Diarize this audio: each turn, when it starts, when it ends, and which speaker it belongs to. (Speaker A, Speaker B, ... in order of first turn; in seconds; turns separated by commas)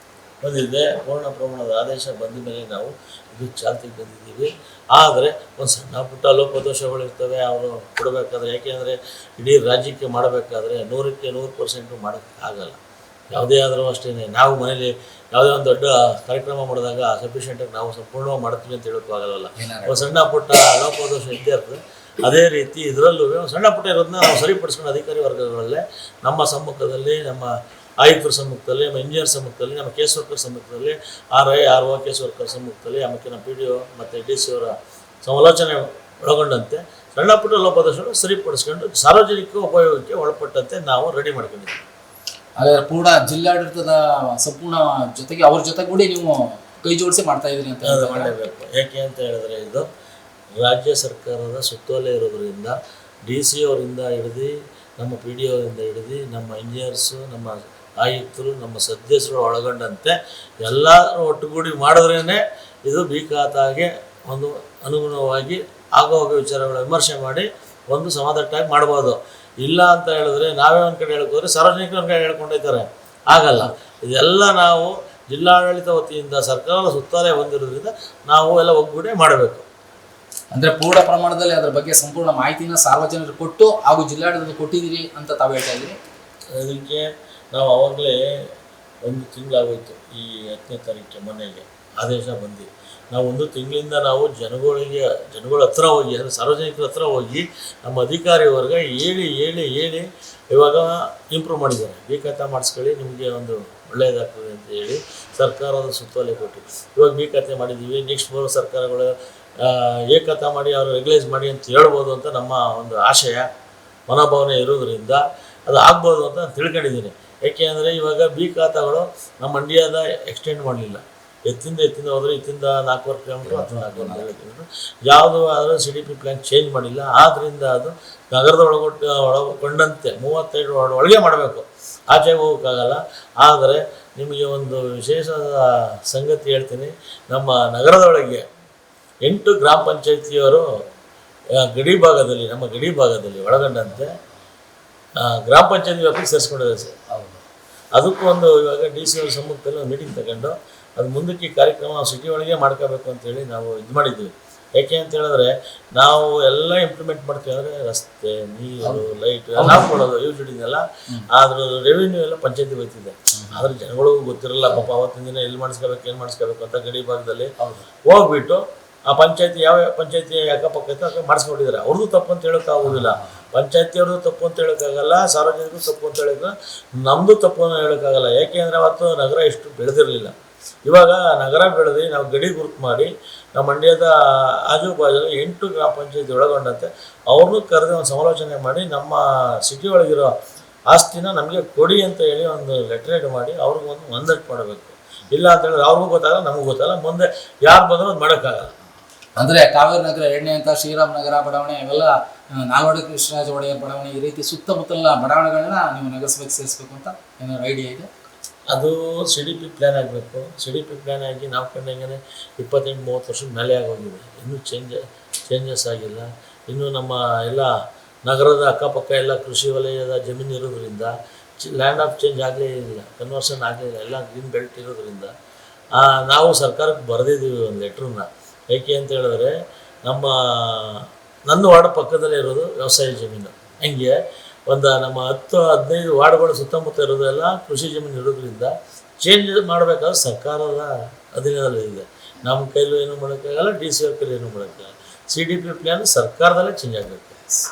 Speaker A: 0.4-12.8, Speaker A: 13.3-27.5, Speaker B: 19.6-20.0, Speaker A: 28.0-41.8, Speaker B: 42.6-48.3, Speaker A: 47.8-49.9, Speaker A: 50.6-79.7, Speaker B: 80.5-86.0, Speaker A: 86.5-88.2, Speaker A: 89.0-113.5, Speaker A: 114.1-138.4, Speaker B: 123.4-124.3, Speaker A: 139.2-140.7, Speaker A: 141.6-144.1, Speaker A: 145.2-147.0, Speaker B: 147.1-147.4, Speaker A: 148.0-167.5, Speaker B: 158.8-159.9, Speaker B: 163.3-163.7, Speaker B: 167.6-167.9, Speaker A: 168.1-180.3, Speaker B: 172.8-173.3, Speaker A: 180.9-190.3, Speaker A: 190.9-198.7, Speaker B: 199.4-208.1, Speaker A: 208.7-217.7, Speaker A: 218.2-225.3, Speaker A: 226.0-229.5, Speaker A: 230.0-234.1, Speaker A: 234.7-247.5